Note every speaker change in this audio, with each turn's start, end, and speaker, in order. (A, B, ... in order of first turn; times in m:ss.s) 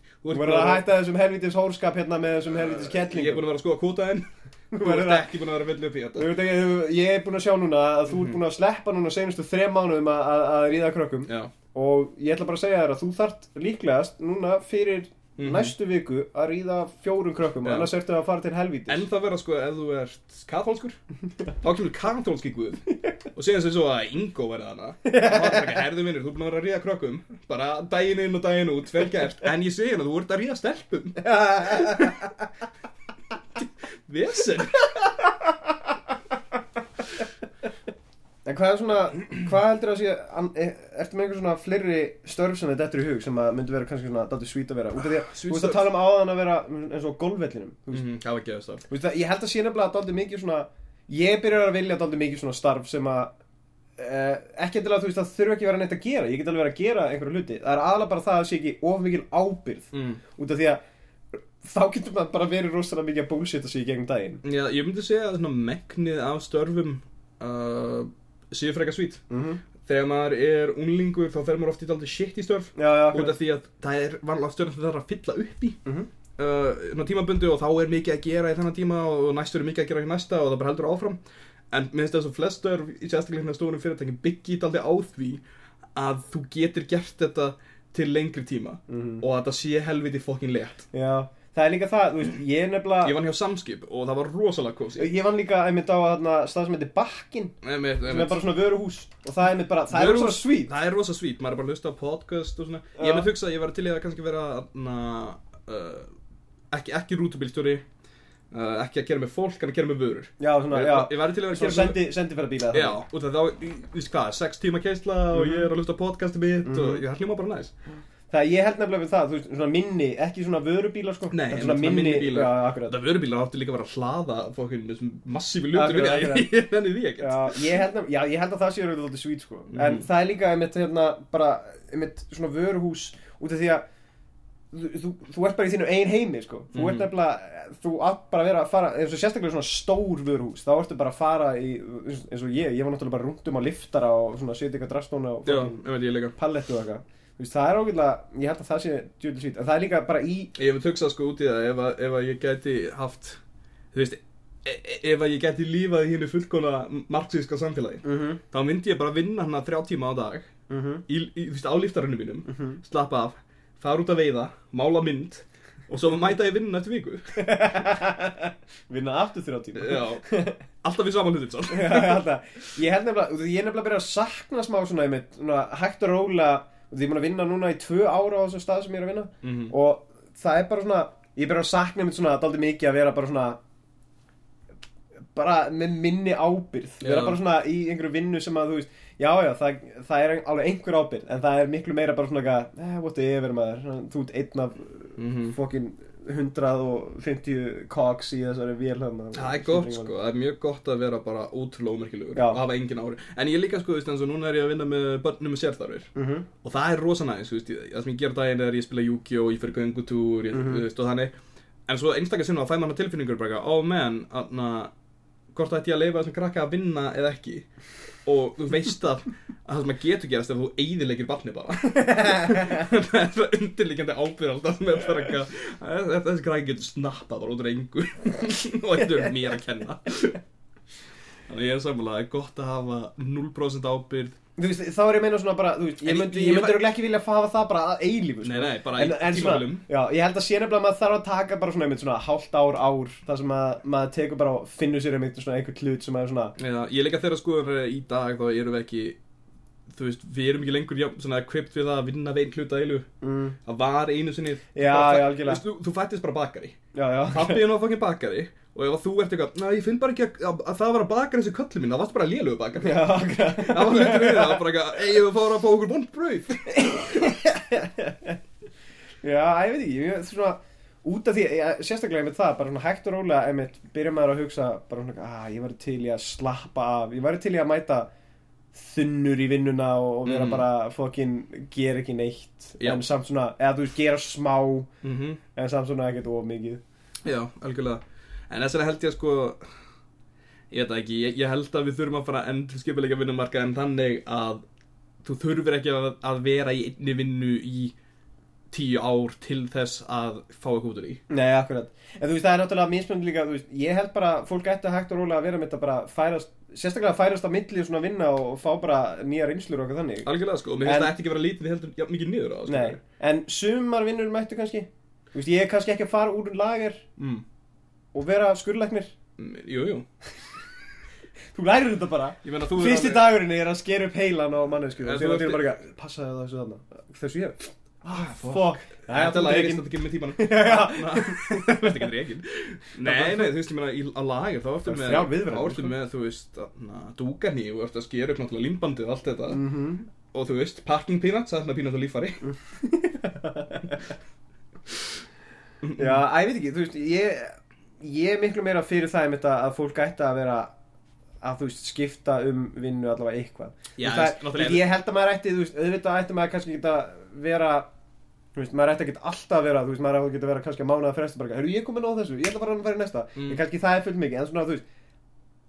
0:00.2-0:00.8 A
0:00.3-0:03.4 B
0:02.5-0:04.2 A
0:04.7-0:05.2 B
0:04.8-0:06.3 A
0:06.2-0:19.0 B
0:11.3-0:11.5 A
0:15.4-0:15.7 A
0:17.6-0:17.9 A
0:18.9-0:21.0 A
0:21.6-0:32.2 A
0:25.0-0:25.8 B
0:31.2-0:32.3 B
0:33.6-0:35.1 A
0:38.4-0:48.1 B
0:45.0-0:45.9 A
0:47.9-0:48.8 A
0:48.9-0:53.3 B
0:54.0-1:00.8 B
0:59.9-1:00.2 A
1:01.6-1:04.4 B
1:04.4-1:09.2 A
1:09.3-1:09.6 B
1:09.8-1:15.8 A
1:12.8-1:13.4 B
1:16.4-1:21.2 A
1:21.7-1:25.4 A
1:25.9-1:30.8 A
1:28.9-1:29.2 B
1:30.9-1:33.2 B
1:33.0-1:35.1 A
1:35.0-1:40.7 B
1:37.6-1:38.4 A
1:39.9-1:46.1 A
1:43.0-1:43.3 B
1:46.7-1:47.8 A
1:48.5-1:52.0 A
1:50.4-1:53.0 B
1:52.7-1:57.7 A
1:55.3-1:55.7 B
1:56.6-1:57.0 B
1:58.3-2:03.0 B
2:01.3-2:07.7 A
2:05.7-2:06.5 B
2:07.2-2:13.8 B
2:09.7-2:10.0 A
2:14.7-2:25.8 B
2:16.7-2:17.0 A
2:25.4-2:26.3 A
2:26.3-2:30.5 B
2:30.6-2:33.4 A
2:33.9-2:40.5 A
2:38.0-2:38.4 B
2:40.7-2:41.0 B
2:41.1-2:47.6 A
2:42.5-2:42.8 B
2:47.4-2:50.6 B
2:49.7-2:50.2 A
2:50.8-2:52.2 A
2:51.7-3:03.6 B
2:59.4-2:59.7 A
3:05.3-3:20.1 B
3:07.0-3:07.4 A
3:15.2-3:15.6 A
3:19.3-3:26.1 A
3:22.3-3:22.6 B
3:26.2-3:26.4 B
3:26.6-3:31.3 A
3:30.5-3:30.8 B
3:31.9-3:34.9 A
3:35.5-3:37.7 A
3:38.2-3:50.4 A
3:42.3-3:42.6 B
3:51.5-3:54.4 A
3:54.6-4:06.6 B
3:56.0-3:56.8 A
3:58.4-3:59.8 A
4:06.6-4:09.2 A
4:09.9-4:13.1 A
4:13.2-4:13.6 B
4:13.6-4:27.2 A
4:14.7-4:15.6 B
4:16.9-4:17.6 B
4:22.8-4:24.7 B
4:26.7-4:28.4 B
4:29.2-4:38.1 B
4:38.7-4:44.9 B
4:40.2-4:40.6 A
4:45.0-4:45.4 A
4:45.5-4:46.8 B
4:47.2-4:49.6 A
4:50.7-4:54.6 A
4:55.2-4:57.9 A
4:58.7-5:01.2 A
5:01.3-5:10.3 B
5:10.2-5:13.0 A
5:10.8-5:11.1 B
5:12.7-5:17.0 B
5:17.2-5:17.4 A
5:18.1-5:19.1 B
5:19.4-5:20.0 A
5:21.5-5:32.1 B
5:22.4-5:23.3 A
5:25.0-5:25.8 A
5:28.1-5:39.6 A
5:33.0-5:33.5 B
5:34.8-5:35.9 B
5:39.5-5:40.0 B
5:40.2-5:42.4 A
5:42.5-5:44.0 B
5:45.8-5:46.2 A
5:46.0-5:50.7 B
5:51.4-5:57.9 B
5:54.0-5:54.9 A
5:58.5-6:04.8 B
6:03.4-6:03.6 A